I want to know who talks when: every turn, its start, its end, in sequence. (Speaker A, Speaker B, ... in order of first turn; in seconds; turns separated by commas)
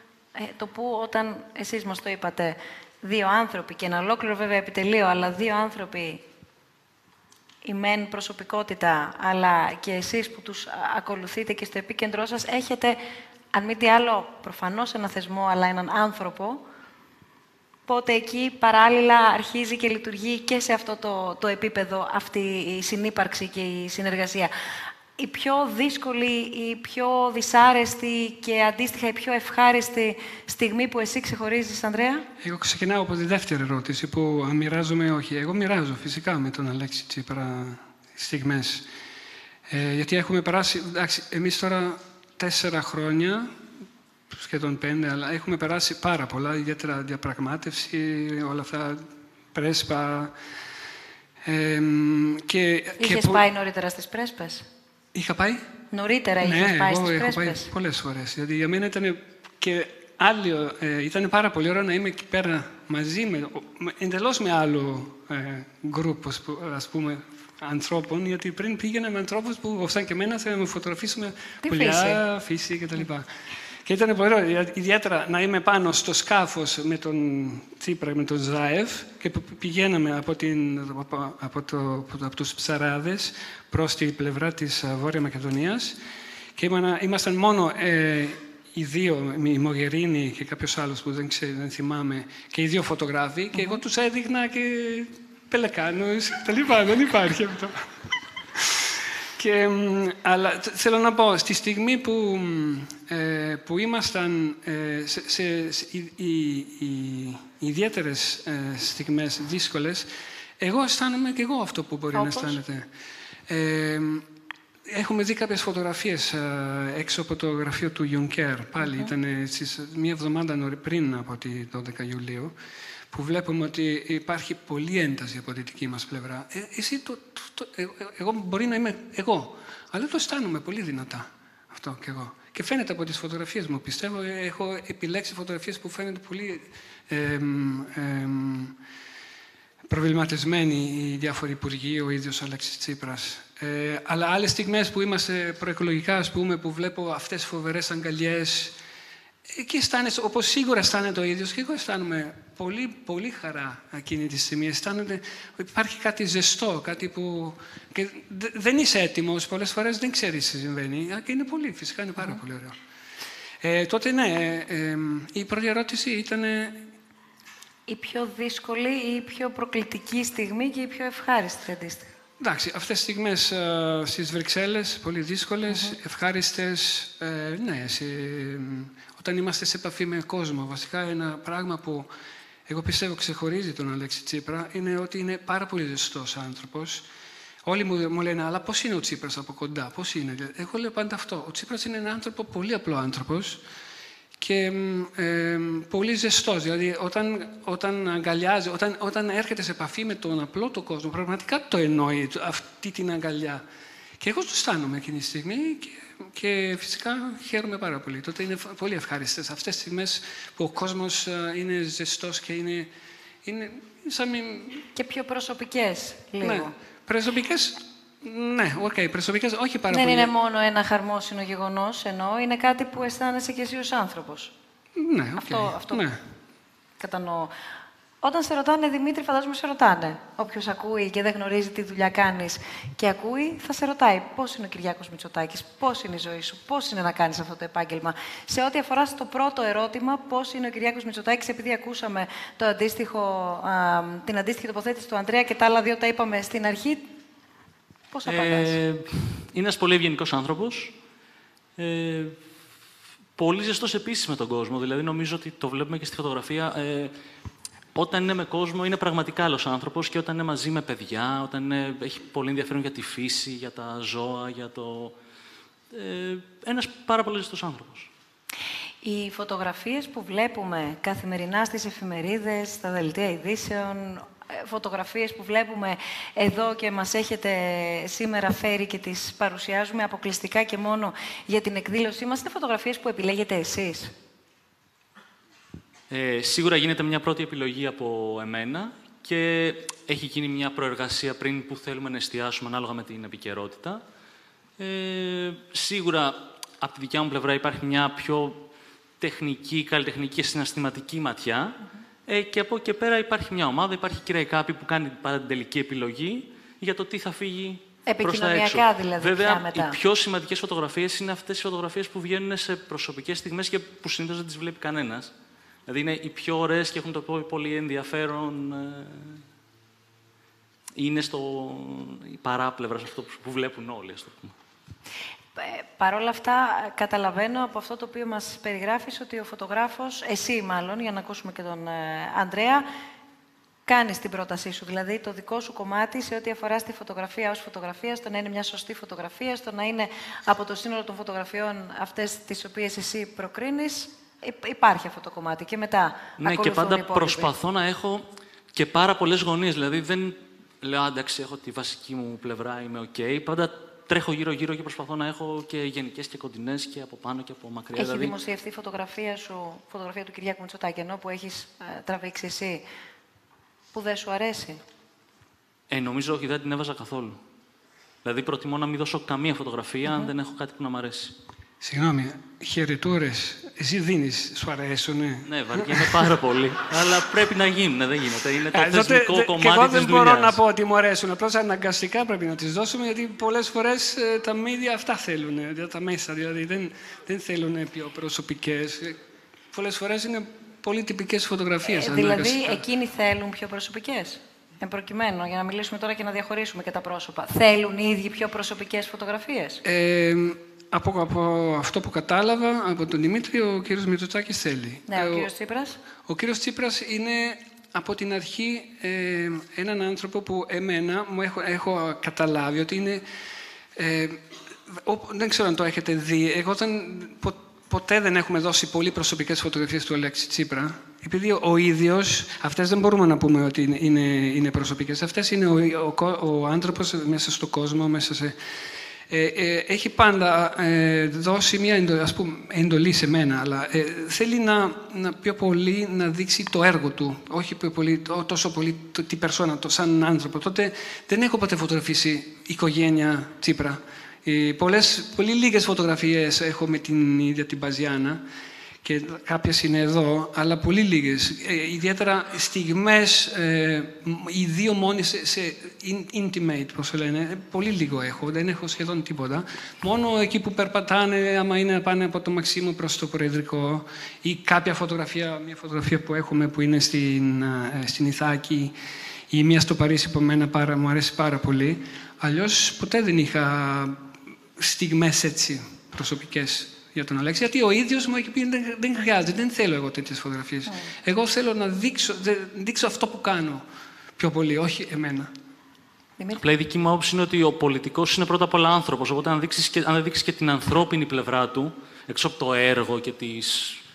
Speaker A: 0.3-6.2, Speaker A: 7.6-13.0, Speaker A: 13.5-16.6, Speaker A: 17.9-24.5, Speaker A: 25.2-32.3, Speaker B: 32.4-38.9, Speaker B: 39.7-43.5, Speaker B: 44.3-50.3, Speaker B: 51.4-53.5, Speaker A: 53.0-54.6, Speaker B: 55.1-55.6, Speaker A: 55.9-57.7, Speaker B: 56.4-73.3, Speaker A: 71.6-72.2, Speaker B: 73.8-86.0, Speaker B: 86.6-97.8, Speaker A: 93.5-93.8, Speaker B: 98.5-112.9, Speaker A: 112.1-112.6, Speaker B: 113.5-114.3, Speaker B: 114.9-122.6, Speaker A: 118.8-119.1, Speaker B: 123.1-138.8, Speaker B: 139.9-148.8, Speaker B: 149.5-162.8, Speaker B: 163.6-166.9, Speaker A: 167.9-172.1, Speaker B: 172.4-182.1, Speaker A: 175.7-175.9, Speaker B: 182.7-187.1, Speaker B: 187.7-193.6, Speaker B: 194.4-203.6, Speaker B: 204.2-212.9, Speaker B: 213.4-214.9, Speaker A: 214.9-216.7, Speaker B: 216.4-220.3, Speaker A: 219.9-224.5, Speaker B: 225.0-226.2, Speaker A: 225.4-226.0, Speaker A: 227.0-227.5, Speaker A: 228.2-247.1, Speaker A: 248.1-248.8, Speaker C: 248.2-250.9, Speaker C: 251.8-252.4, Speaker C: 253.4-257.1, Speaker C: 257.9-265.1, Speaker C: 265.9-268.1, Speaker A: 269.0-284.1, Speaker C: 286.1-294.0, Speaker C: 294.8-298.6, Speaker C: 299.2-301.8, Speaker C: 302.3-315.3, Speaker A: 308.1-310.0, Speaker C: 315.9-319.4, Speaker C: 321.0-324.5, Speaker A: 325.6-332.9, Speaker A: 333.9-347.5, Speaker C: 346.4-358.3, Speaker A: 358.0-362.9, Speaker A: 363.9-364.8, Speaker C: 365.9-367.4, Speaker C: 368.2-371.4, Speaker B: 371.8-376.3, Speaker C: 375.5-380.6, Speaker B: 378.7-389.2, Speaker B: 389.7-392.8, Speaker A: 391.9-399.8, Speaker B: 399.9-405.5, Speaker A: 405.1-406.0, Speaker B: 406.2-413.2, Speaker B: 413.9-428.6, Speaker B: 429.3-448.4, Speaker B: 449.0-468.9, Speaker B: 469.5-474.2, Speaker B: 474.8-483.8, Speaker A: 480.9-481.1, Speaker B: 484.4-485.5, Speaker C: 486.6-494.0